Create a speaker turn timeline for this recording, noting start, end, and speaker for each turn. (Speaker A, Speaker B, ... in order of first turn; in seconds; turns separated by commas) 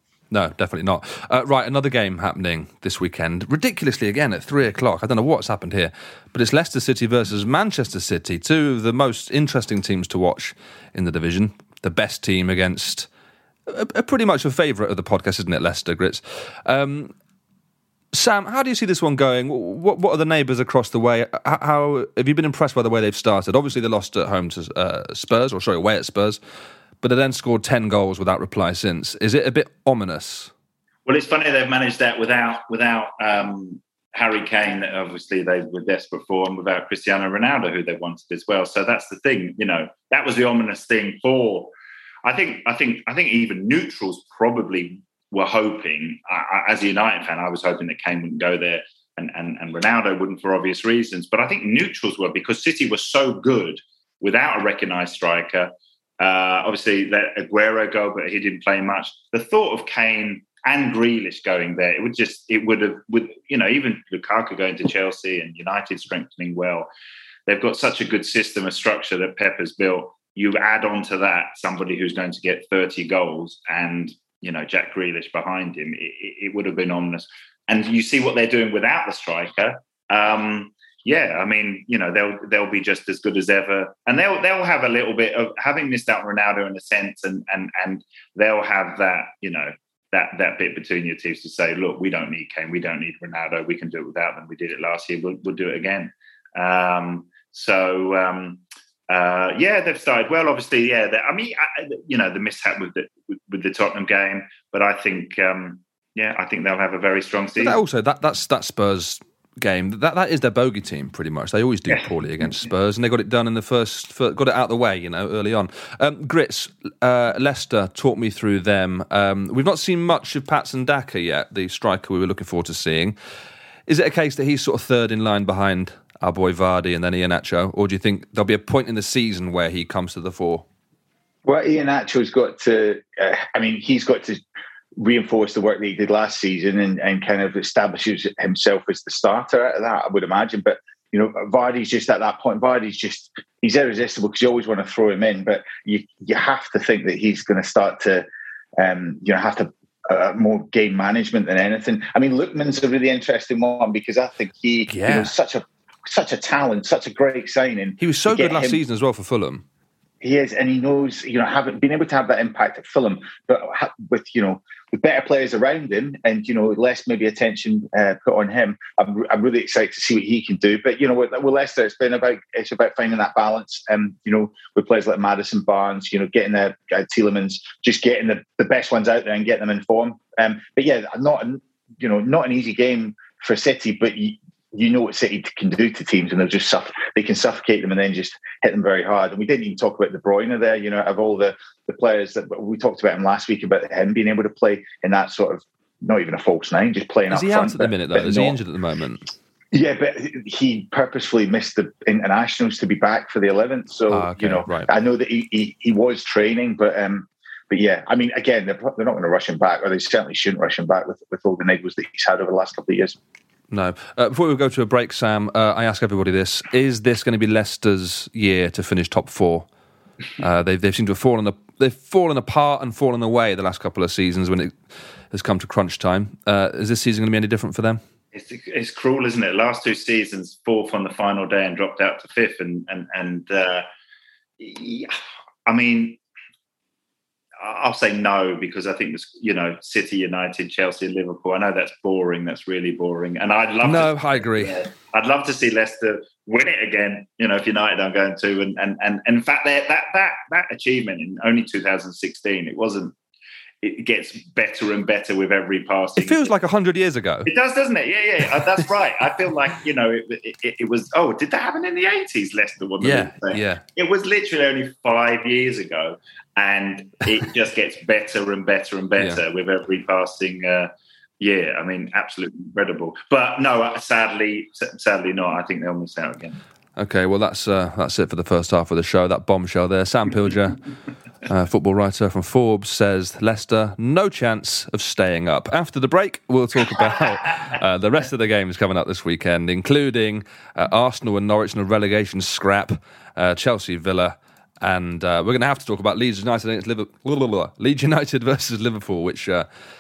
Speaker A: 0.3-13.1, Speaker A: 13.7-17.1, Speaker A: 18.1-26.4, Speaker A: 27.0-30.5, Speaker B: 31.1-41.7, Speaker B: 42.2-66.9, Speaker B: 67.5-107.8, Speaker A: 107.6-123.2, Speaker A: 123.9-130.7, Speaker C: 131.4-134.4, Speaker C: 135.0-148.3, Speaker C: 148.8-158.8, Speaker A: 154.9-155.3, Speaker A: 158.0-159.6, Speaker C: 160.2-198.6, Speaker A: 197.3-199.3, Speaker C: 199.7-213.2, Speaker A: 204.1-204.9, Speaker A: 213.7-219.7, Speaker A: 220.4-224.8, Speaker A: 225.3-228.0, Speaker B: 228.3-233.9, Speaker B: 234.6-235.2, Speaker B: 235.7-236.2, Speaker B: 237.6-253.2, Speaker A: 243.8-244.8, Speaker B: 253.8-256.5, Speaker A: 256.2-257.5, Speaker B: 257.5-276.6, Speaker A: 263.0-263.8, Speaker A: 277.0-280.8, Speaker A: 281.5-299.7